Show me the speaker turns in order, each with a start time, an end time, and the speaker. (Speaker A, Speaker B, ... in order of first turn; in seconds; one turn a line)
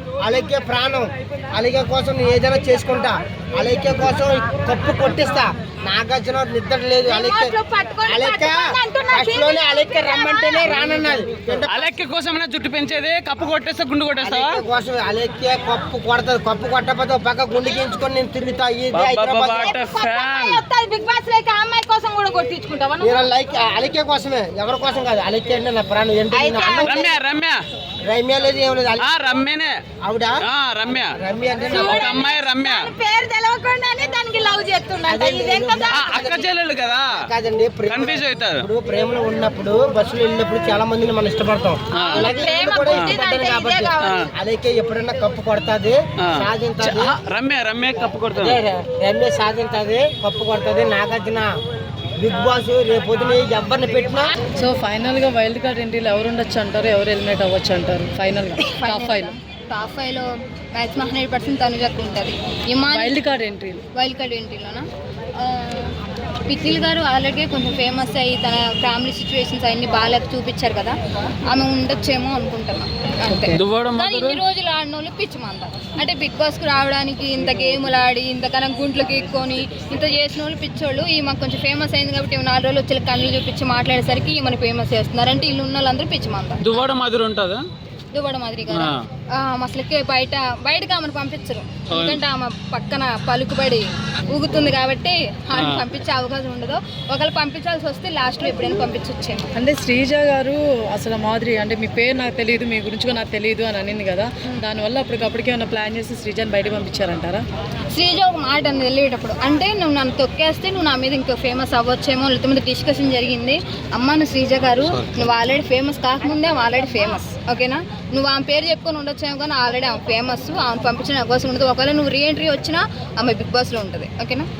Speaker A: 0.2-11.9
Speaker B: 7.0-10.9
Speaker C: 11.7-14.6
Speaker A: 14.2-19.8
Speaker C: 18.9-20.6
Speaker B: 19.5-23.2
Speaker A: 23.0-27.1
Speaker B: 26.3-27.2
Speaker C: 26.8-27.6
Speaker A: 28.0-29.1
Speaker C: 29.0-29.8
Speaker A: 30.0-30.4
Speaker C: 30.5-31.1
Speaker A: 31.1-32.3
Speaker B: 31.7-36.5
Speaker C: 31.7-32.9
Speaker A: 35.0-36.5
Speaker C: 35.9-37.1
Speaker A: 37.1-47.1
Speaker C: 37.9-38.7
Speaker C: 41.9-42.3
Speaker B: 41.9-44.3
Speaker C: 44.0-44.3
Speaker C: 46.2-48.6
Speaker A: 48.3-51.5
Speaker A: 52.2-54.3
Speaker D: 54.6-59.3
Speaker E: 58.6-63.2
Speaker D: 62.9-63.8
Speaker E: 63.9-64.8
Speaker E: 65.3-71.0
Speaker E: 71.5-86.7
Speaker D: 73.3-73.6
Speaker C: 73.5-74.4
Speaker C: 86.6-87.6
Speaker E: 88.1-99.5
Speaker C: 88.7-89.0
Speaker C: 91.9-92.2
Speaker C: 95.5-95.8
Speaker D: 99.5-107.4
Speaker E: 107.9-124.5